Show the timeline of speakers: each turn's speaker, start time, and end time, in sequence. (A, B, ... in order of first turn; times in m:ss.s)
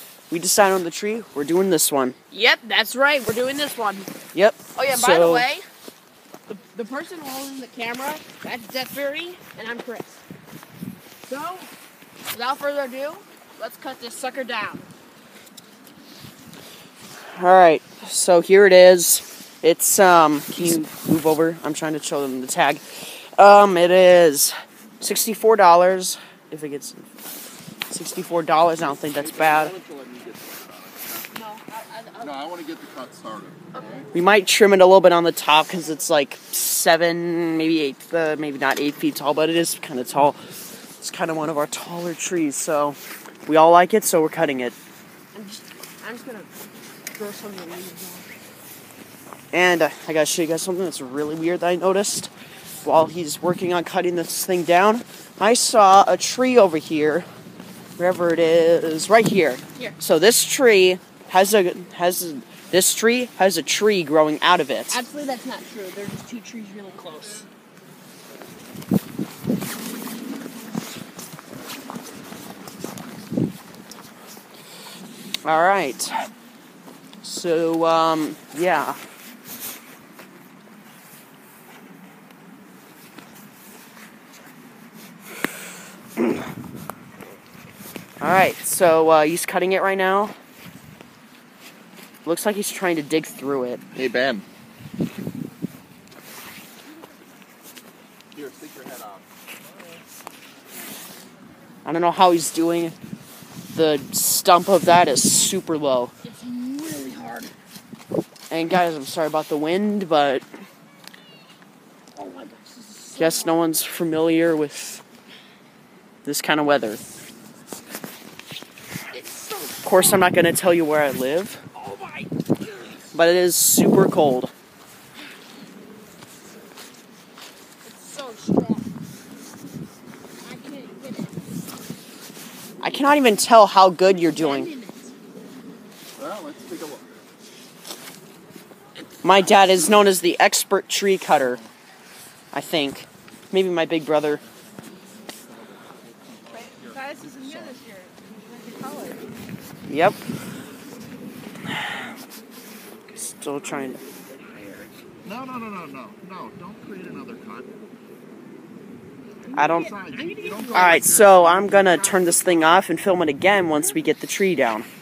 0:00.3-0:02.2 A
0:02.3-0:04.1 B
0:04.3-0:05.5 A
0:04.8-0:05.7 B
0:06.5-0:10.2 B
0:11.3-0:11.7 B
0:12.3-0:14.9 B
0:17.3-0:27.1 A
0:27.9-0:29.8 A
0:29.1-0:31.4 C
0:31.3-0:32.5 B
0:32.2-0:34.0 C
0:33.7-0:34.1 B
0:34.1-0:40.4 A
0:41.0-0:44.8 A
0:45.3-0:46.5 B
0:47.1-0:48.3 B
0:49.5-0:52.3 A
0:52.8-0:57.3 A
0:58.0-1:05.0 A
1:04.9-1:07.5 B
1:15.4-1:16.2 A
1:17.2-1:19.0 A
1:28.2-1:30.3 A
1:32.2-1:33.8 A
1:33.9-1:34.5 C
1:38.3-1:39.2 C
1:41.8-1:43.0 A
1:43.7-1:46.1 A
1:46.2-1:47.6 B
1:48.5-1:50.4 A
1:52.2-1:53.6 B
1:53.2-1:55.0 A
1:56.2-1:57.0 A
1:59.1-2:00.3 B
1:59.8-2:01.6 A
2:01.7-2:03.0 B
2:03.1-2:04.5 A
2:07.8-2:08.9 B
2:10.4-2:11.6 B
2:12.8-2:14.7 A
2:14.0-2:15.1 B
2:16.2-2:17.2 C
2:19.2-2:21.6 A
2:19.3-2:19.8 B
2:22.5-2:24.4 A
2:25.5-2:27.8 C
2:26.5-2:29.3 B
2:29.9-2:30.2 A
2:31.7-2:32.0 A
2:33.1-2:34.0 A
2:33.7-2:34.9 B
2:35.2-2:37.8 C
2:39.4-2:42.5 B
2:39.6-2:39.9 A
2:39.7-2:42.3 C
2:40.7-2:44.9 A